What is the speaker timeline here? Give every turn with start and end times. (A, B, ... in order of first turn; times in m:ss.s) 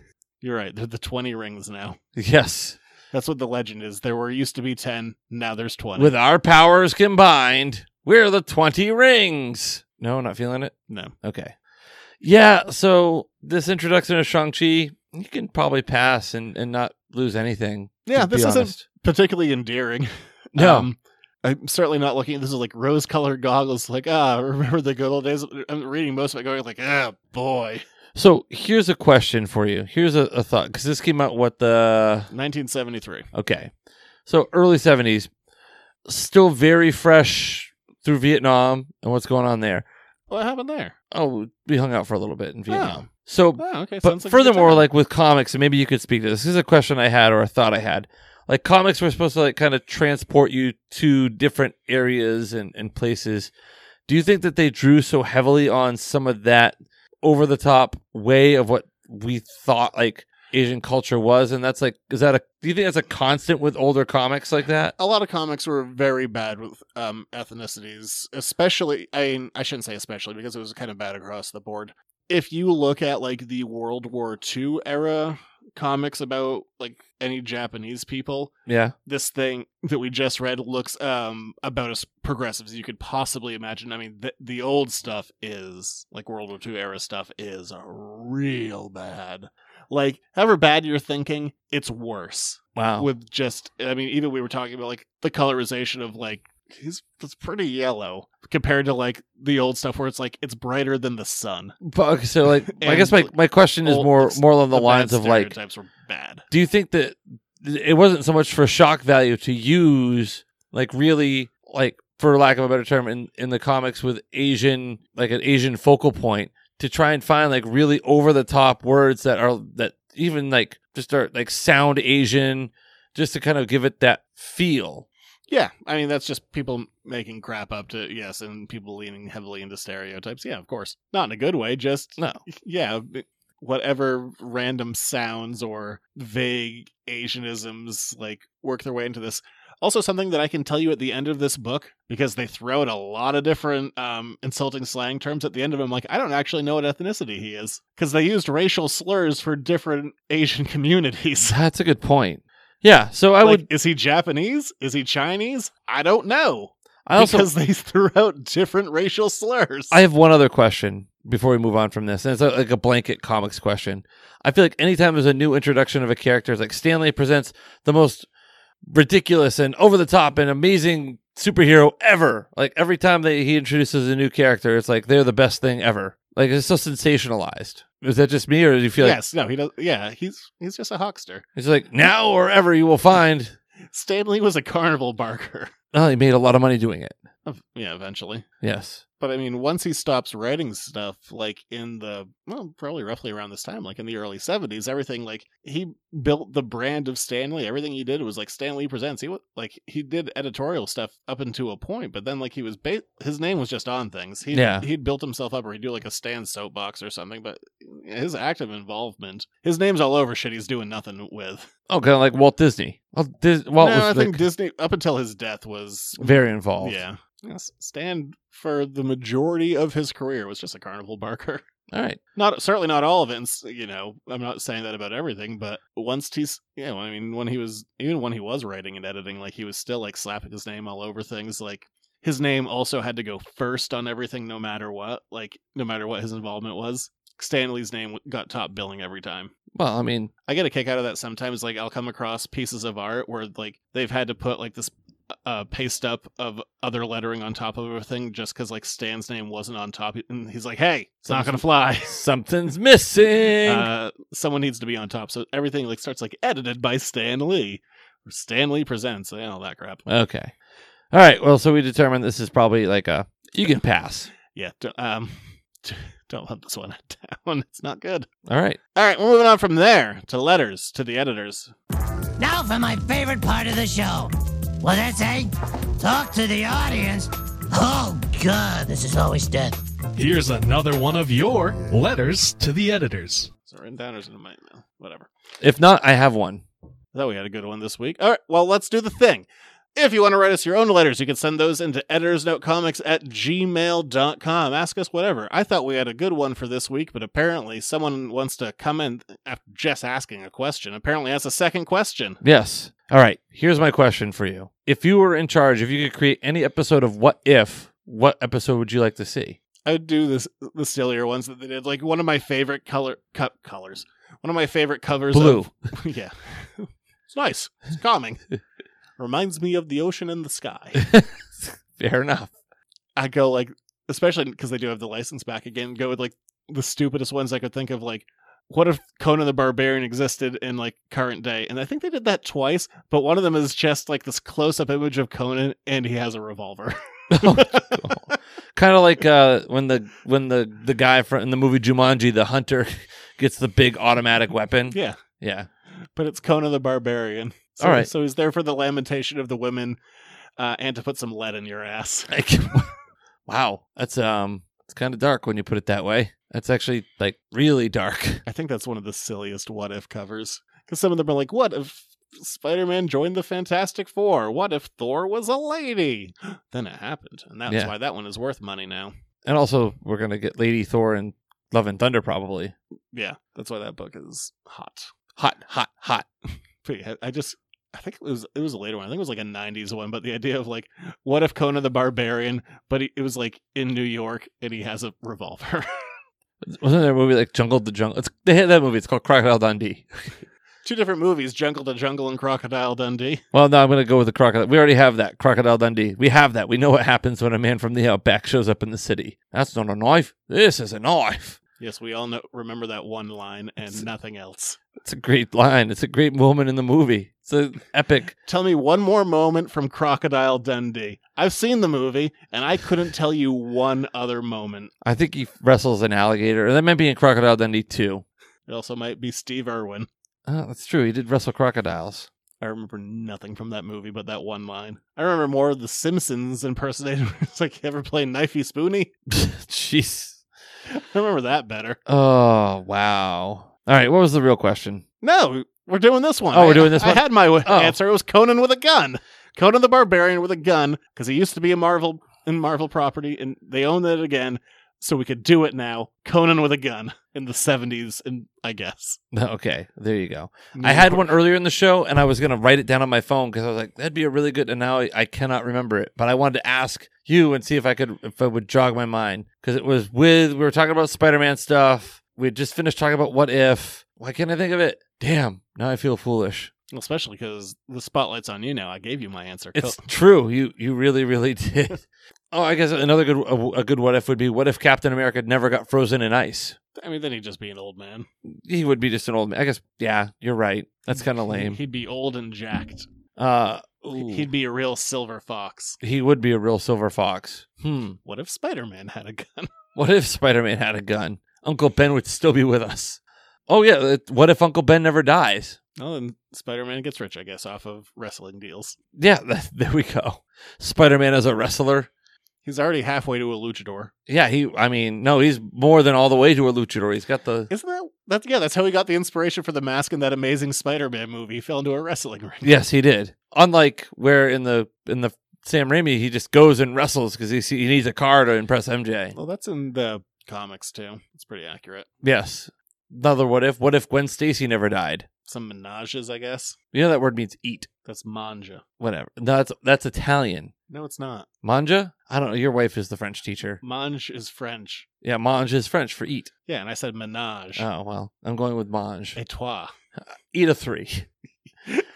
0:00.4-0:02.0 A
0:02.1-0:02.8 B
0:03.1-0:06.1 A
0:06.0-0:11.5 B
0:10.9-0:11.1 A
0:12.2-0:18.8 B
0:18.0-0:27.8 A
0:20.5-0:20.9 B
0:28.1-0:32.3 B
0:32.3-0:33.3 A
0:33.3-0:33.7 B
0:34.3-0:35.3 B
0:36.0-0:39.8 B
0:40.3-0:40.9 A
0:41.1-0:53.5 B
0:42.7-0:43.1 A
0:43.6-0:44.8 A
0:54.1-1:04.9 B
1:05.0-1:18.5 A
1:18.7-1:18.9 B
1:19.0-1:41.7 A
1:32.8-1:33.1 B
1:41.8-1:45.5 B
1:42.7-1:46.4 A
1:46.5-2:05.0 B
2:05.5-2:31.5 A
2:31.4-2:33.6 B
2:33.4-2:40.0 A
2:37.0-2:37.5 B
2:39.9-2:48.2 B
2:48.8-2:59.2 B
2:59.0-3:01.4 A
3:01.6-3:03.5 B
3:03.9-3:05.7 A
3:05.9-3:07.2 B
3:07.4-3:08.4 A
3:08.6-3:09.0 B
3:09.2-3:31.7 A
3:24.5-3:24.8 B
3:31.9-3:34.4 B
3:33.8-3:41.6 A
3:36.2-3:37.0 B
3:41.9-3:42.2 B
3:42.4-3:59.5 A
3:59.7-4:00.3 B
4:00.5-4:04.9 A
4:05.4-4:12.2 A
4:11.2-4:13.9 B
4:13.6-4:20.0 A
4:20.1-4:20.5 B
4:21.1-4:24.3 B
4:24.5-4:28.3 A
4:28.5-4:28.8 B
4:28.9-4:31.7 A
4:32.4-4:39.8 C
4:40.1-4:43.5 D
4:43.6-4:45.3 A
4:45.6-4:46.6 B
4:47.1-5:02.4 A
5:02.4-5:09.6 B
5:09.8-5:18.4 A
5:15.3-5:15.7 B
5:19.2-5:21.1 A
5:21.0-5:22.5 B
5:23.2-5:38.1 A
5:37.3-5:45.7 B
5:44.9-5:45.2 A
5:46.2-5:50.0 A
5:47.8-5:48.1 B
5:50.6-5:52.3 A
5:52.3-5:52.9 B
5:53.5-5:58.4 B
5:58.4-6:09.1 A
6:07.7-6:07.9 B
6:09.4-6:12.7 B
6:13.1-6:15.1 A
6:15.4-6:16.3 B
6:16.8-6:25.8 A
6:26.6-6:30.3 B
6:30.8-6:33.4 A
6:33.5-6:41.6 B
6:41.8-6:44.8 A
6:45.0-6:48.3 B
6:48.4-6:54.9 A
6:55.0-6:58.2 B
6:58.7-7:00.1 A
7:00.4-7:02.3 B
7:02.6-7:09.1 A
7:09.3-7:10.4 B
7:10.9-7:12.0 A
7:12.1-7:15.0 B
7:15.2-7:29.2 A
7:16.5-7:18.0 B
7:29.3-7:46.7 B
7:30.7-7:31.3 A
7:46.9-7:50.0 A
7:49.7-7:56.8 B
7:57.0-7:58.3 A
7:58.5-8:01.8 B
8:01.2-8:03.1 A
8:03.4-8:04.5 B
8:04.1-8:06.0 A
8:06.0-8:08.2 B
8:08.2-8:09.7 A
8:10.0-8:15.8 B
8:16.0-8:19.0 A
8:19.2-8:22.1 B
8:22.6-8:24.1 A
8:24.3-8:27.7 B
8:27.7-8:32.7 A
8:32.6-8:39.3 B
8:39.3-8:42.1 A
8:42.2-8:45.3 B
8:45.4-8:46.8 A
8:46.9-8:47.9 B
8:48.0-8:48.8 A
8:49.0-8:50.7 B
8:50.9-8:51.5 A
8:51.6-8:53.8 B
8:53.8-8:55.0 A
8:55.2-8:56.5 B
8:56.7-8:57.8 A
8:57.8-8:59.4 B
8:59.4-8:59.9 A
9:00.5-9:01.3 B